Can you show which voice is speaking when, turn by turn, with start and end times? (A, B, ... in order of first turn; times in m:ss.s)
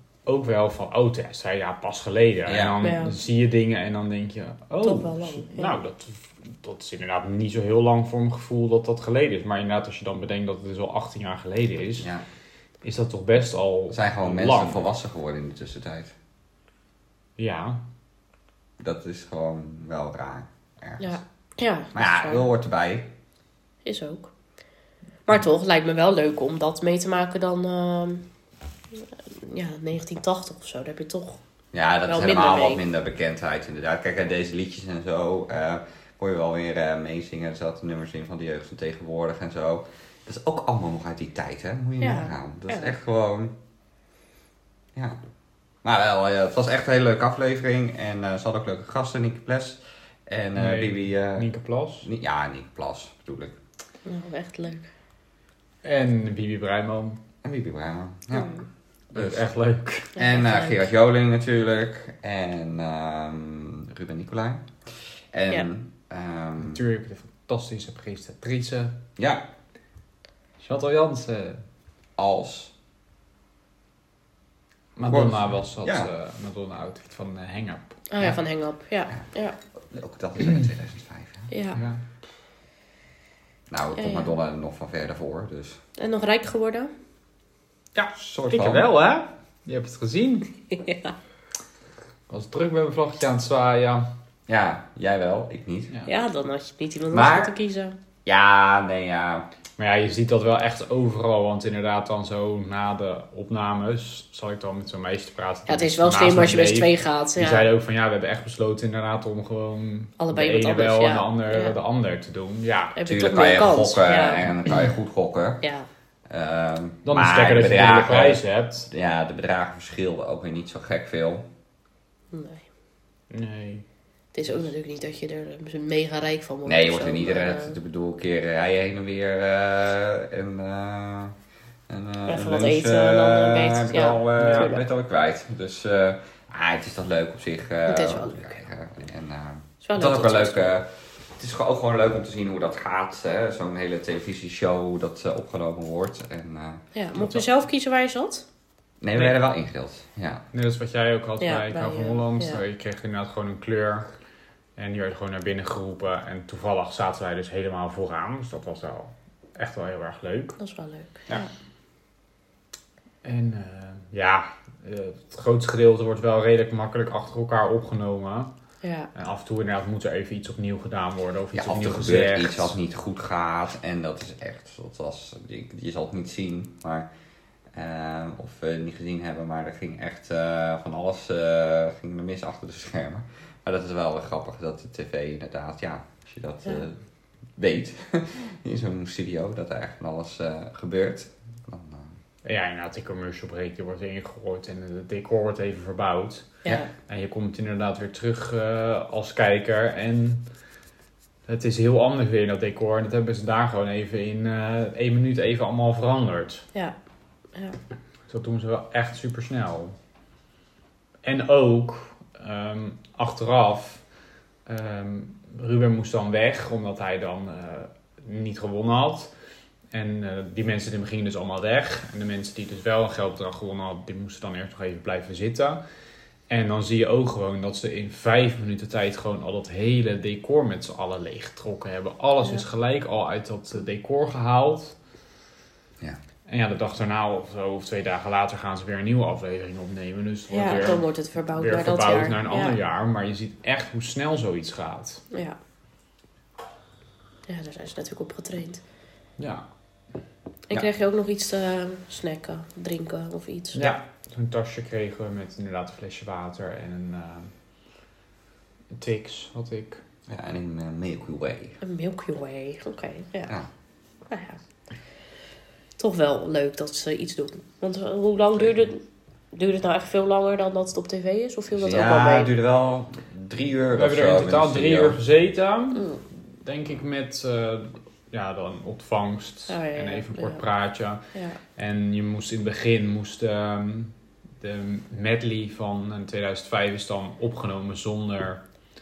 0:00.3-0:12.1 A
0:02.5-0:02.8 B
0:02.8-0:03.2 C
0:04.8-0:05.8 C
0:12.8-0:14.8 A
0:13.9-0:16.1 B
0:17.4-0:17.8 A
0:18.8-0:21.2 B
0:21.0-0:22.5 C
0:21.9-0:23.1 B
0:23.8-0:24.3 C
0:25.2-0:28.3 C
0:29.3-0:31.4 C
0:31.7-0:43.6 B
0:32.0-0:32.8 C
0:42.0-0:42.9 C
0:45.8-0:51.5 B
0:50.6-0:52.1 A
0:52.0-0:53.6 B
0:54.0-0:54.9 C
0:55.8-0:57.2 A
0:57.4-0:58.5 B
0:58.3-0:58.6 C
0:59.1-1:00.1 A
0:59.1-0:59.5 B
1:00.1-1:04.7 B
1:00.2-1:00.9 C
1:05.3-1:06.8 B
1:06.6-1:09.0 A
1:09.2-1:09.5 B
1:10.6-1:11.6 A
1:12.2-1:12.7 B
1:15.0-1:18.4 A
1:15.0-1:16.1 B
1:18.1-1:19.6 C
1:19.8-1:21.5 B
1:21.5-1:21.8 C
1:21.8-1:22.0 A
1:23.7-1:25.8 B
1:24.0-1:24.3 C
1:26.0-1:26.9 C
1:28.0-1:30.5 A
1:28.2-1:28.9 B
1:30.7-1:31.2 C
1:32.3-1:34.1 A
1:34.5-1:35.9 B
1:36.1-1:38.0 C
1:37.1-1:37.5 B
1:38.2-1:39.5 B
1:39.8-1:53.0 A
1:45.7-1:47.7 C
1:50.2-1:51.8 C
1:53.0-1:54.5 C
1:53.0-1:55.6 B
1:55.6-1:55.9 C
1:56.3-2:01.5 B
1:57.1-1:58.9 A
2:02.3-2:02.7 C
2:03.3-2:03.8 A
2:04.3-2:07.8 C
2:06.6-2:11.4 B
2:11.9-2:26.8 B
2:12.3-2:14.8 C
2:14.4-2:14.7 A
2:17.9-2:18.5 C
2:19.8-2:20.7 C
2:27.0-2:28.4 C
2:29.0-2:30.4 B
2:30.5-2:34.1 A
2:31.4-2:32.6 C
2:34.8-2:40.6 A
2:40.6-2:41.5 C
2:43.2-2:48.5 A
2:48.8-2:49.1 C
2:49.1-2:52.7 A
2:51.5-2:57.1 B
2:57.7-3:07.0 B
3:07.6-3:12.2 B
3:12.4-3:20.5 A
3:21.5-3:26.7 A
3:28.3-3:30.0 A
3:31.2-3:34.0 A
3:34.7-3:39.3 A
3:39.9-3:45.8 A
3:46.5-3:55.0 A
3:56.5-4:05.2 A
4:00.5-4:02.8 C
4:05.3-4:05.6 C
4:07.5-4:08.8 C
4:09.4-4:09.6 A
4:10.7-4:13.9 C
4:13.7-4:17.5 A
4:18.9-4:20.0 A
4:20.3-4:21.8 B
4:21.8-4:23.5 C
4:24.3-4:24.6 C
4:26.0-4:32.5 C
4:31.7-4:35.2 B
4:33.9-4:41.2 A
4:39.7-4:40.6 C
4:41.3-4:41.6 C
4:41.8-4:48.6 A